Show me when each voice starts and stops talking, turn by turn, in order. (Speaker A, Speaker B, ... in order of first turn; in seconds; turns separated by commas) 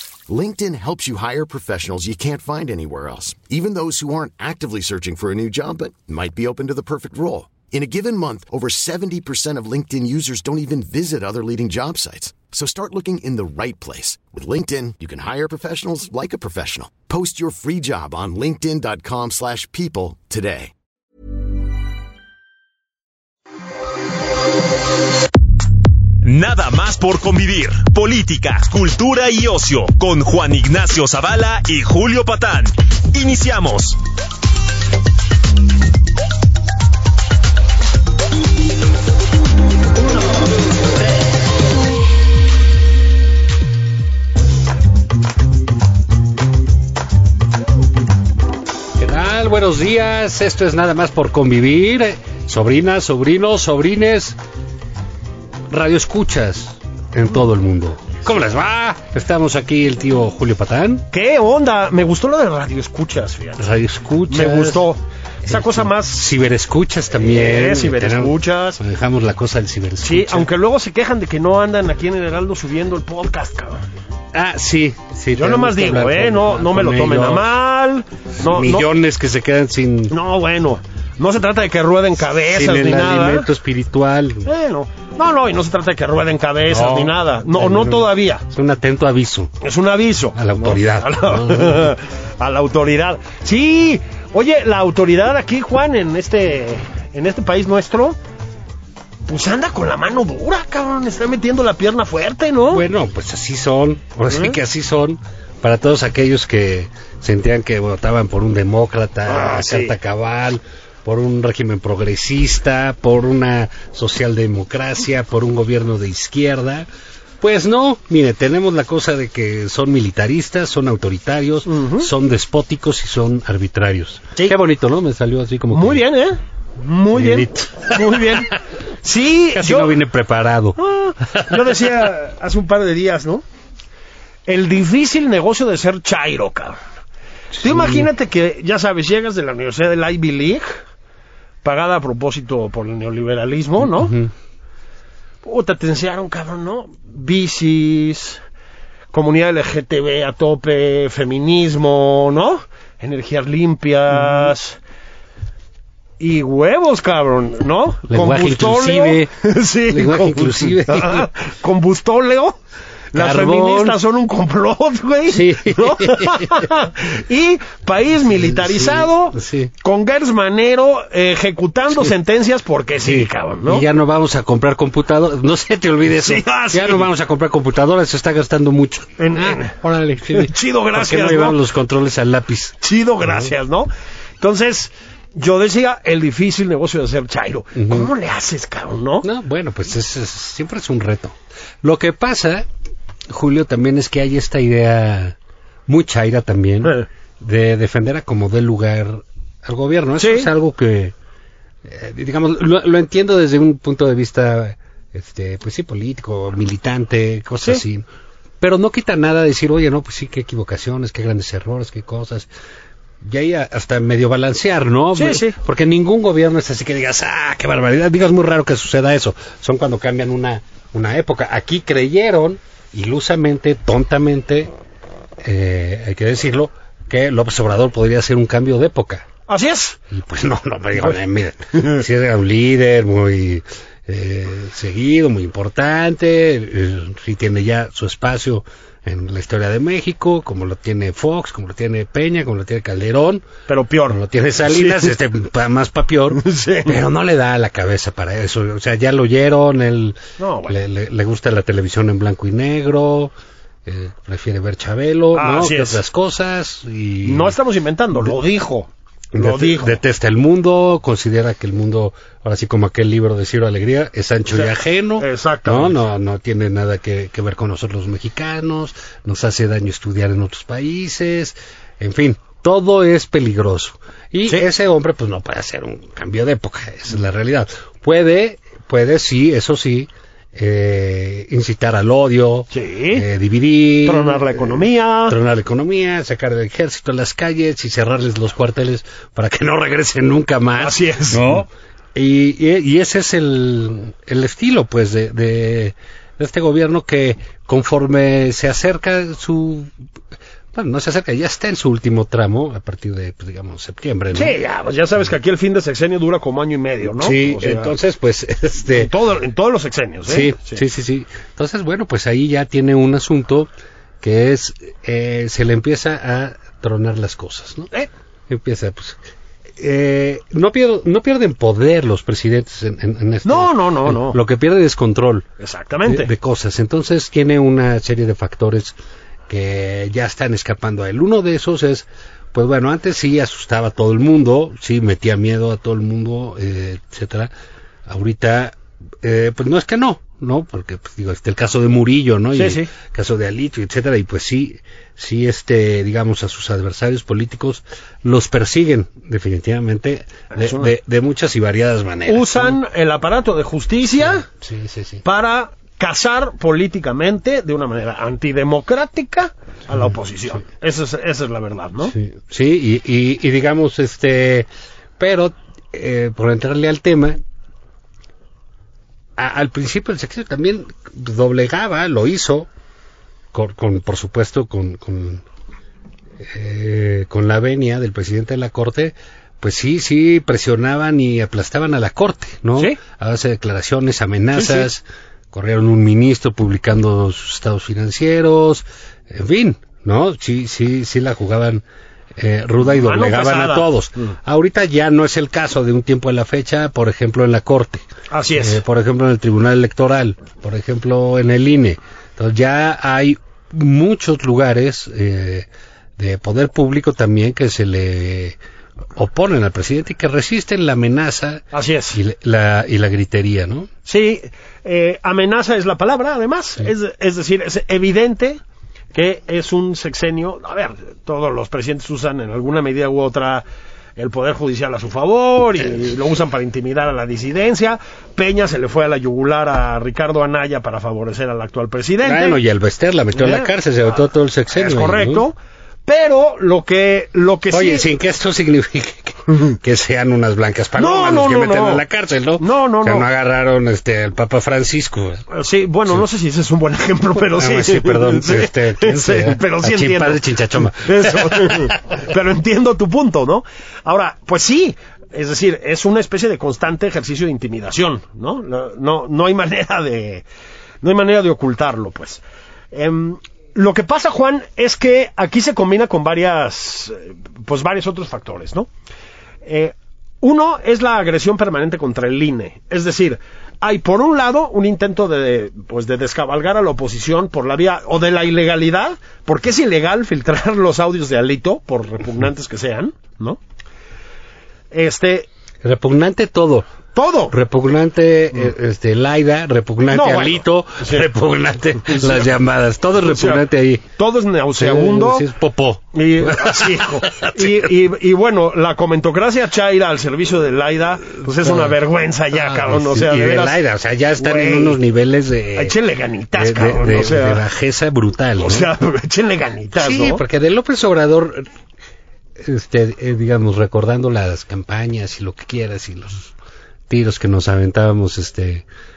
Speaker A: 0.3-20.7, Speaker B: 26.2-34.0, Speaker C: 49.0-54.4, Speaker C: 55.7-61.0, Speaker D: 61.1-63.7, Speaker C: 63.6-64.8, Speaker D: 64.3-66.3, Speaker C: 65.5-70.5, Speaker D: 67.1-68.8, Speaker D: 70.0-73.8, Speaker C: 74.3-77.5, Speaker D: 75.3-78.9, Speaker C: 78.4-80.2, Speaker D: 80.1-83.5, Speaker C: 82.5-84.5, Speaker D: 84.5-88.4, Speaker C: 86.7-89.5, Speaker D: 89.6-98.2, Speaker C: 90.3-91.9, Speaker D: 99.3-102.8, Speaker C: 102.7-116.9, Speaker D: 104.3-104.6, Speaker D: 109.3-109.9, Speaker C: 117.4-126.0, Speaker D: 121.7-122.1, Speaker D: 125.7-130.0, Speaker C: 127.1-128.6, Speaker C: 129.5-131.9, Speaker D: 130.8-133.4, Speaker D: 134.5-136.8, Speaker C: 137.5-138.1, Speaker D: 137.6-140.8, Speaker D: 141.6-144.2, Speaker C: 143.8-144.3, Speaker D: 145.4-148.4, Speaker D: 149.1-154.8, Speaker C: 154.1-154.5, Speaker D: 156.2-162.5, Speaker C: 158.1-159.3, Speaker C: 159.9-161.3, Speaker D: 163.1-173.8, Speaker C: 163.1-164.0, Speaker C: 165.3-166.7, Speaker C: 168.3-169.7, Speaker C: 173.0-183.5, Speaker D: 176.1-177.1, Speaker D: 179.2-181.6, Speaker D: 182.8-183.9, Speaker D: 184.4-189.3, Speaker C: 187.8-188.1, Speaker C: 189.2-192.7, Speaker C: 193.3-195.3, Speaker C: 195.9-201.1, Speaker D: 200.2-200.5, Speaker C: 201.8-208.1, Speaker C: 208.6-212.5, Speaker C: 213.2-224.7, Speaker D: 215.2-215.6, Speaker C: 225.4-229.3, Speaker D: 229.5-230.0, Speaker C: 230.1-243.5, Speaker D: 231.8-232.0, Speaker D: 243.7-245.2, Speaker C: 244.1-253.3, Speaker D: 246.3-247.0, Speaker D: 250.4-250.8, Speaker C: 253.8-257.6, Speaker D: 255.3-256.0, Speaker D: 257.2-260.0, Speaker C: 259.3-299.9, Speaker D: 264.5-266.0, Speaker D: 282.7-283.2, Speaker D: 284.0-285.4, Speaker D: 290.8-291.6, Speaker C: 300.7-304.6, Speaker D: 304.3-307.9, Speaker C: 307.2-309.1, Speaker D: 308.9-310.8, Speaker C: 310.2-313.7, Speaker C: 314.2-317.9, Speaker C: 318.5-319.2, Speaker C: 319.8-325.5, Speaker D: 323.4-324.4, Speaker D: 325.6-326.3, Speaker C: 326.1-329.0, Speaker C: 329.5-337.5, Speaker C: 338.1-352.8, Speaker D: 342.5-342.9, Speaker D: 350.5-350.9, Speaker D: 352.3-354.5, Speaker C: 354.1-355.2, Speaker D: 355.2-362.1, Speaker C: 362.1-367.4, Speaker C: 369.4-372.7, Speaker C: 373.5-375.4, Speaker C: 376.4-391.8, Speaker D: 384.5-384.9, Speaker C: 392.4-408.6, Speaker D: 392.9-394.3, Speaker D: 398.3-398.8, Speaker C: 409.1-413.9, Speaker D: 411.7-412.2, Speaker D: 414.1-418.6, Speaker D: 419.1-423.6, Speaker D: 424.2-432.6, Speaker C: 432.2-435.5, Speaker D: 433.3-433.7, Speaker D: 434.7-435.6, Speaker D: 436.1-438.1, Speaker C: 437.7-445.4, Speaker D: 441.0-442.0, Speaker D: 442.6-443.3, Speaker D: 445.5-460.4, Speaker C: 447.5-452.0, Speaker D: 461.0-468.9, Speaker D: 469.6-483.6, Speaker D: 484.9-485.5, Speaker C: 485.8-486.9, Speaker D: 487.1-487.5, Speaker C: 487.5-494.1, Speaker D: 490.1-491.3, Speaker D: 492.0-492.5, Speaker D: 493.2-493.6, Speaker D: 494.2-495.4, Speaker C: 494.8-497.9, Speaker D: 496.1-503.8, Speaker C: 501.4-502.0, Speaker C: 502.5-505.9, Speaker D: 504.4-505.0, Speaker D: 505.8-507.6, Speaker C: 506.6-508.9, Speaker D: 508.6-510.4, Speaker C: 509.9-511.7, Speaker C: 512.6-516.5, Speaker C: 517.1-518.9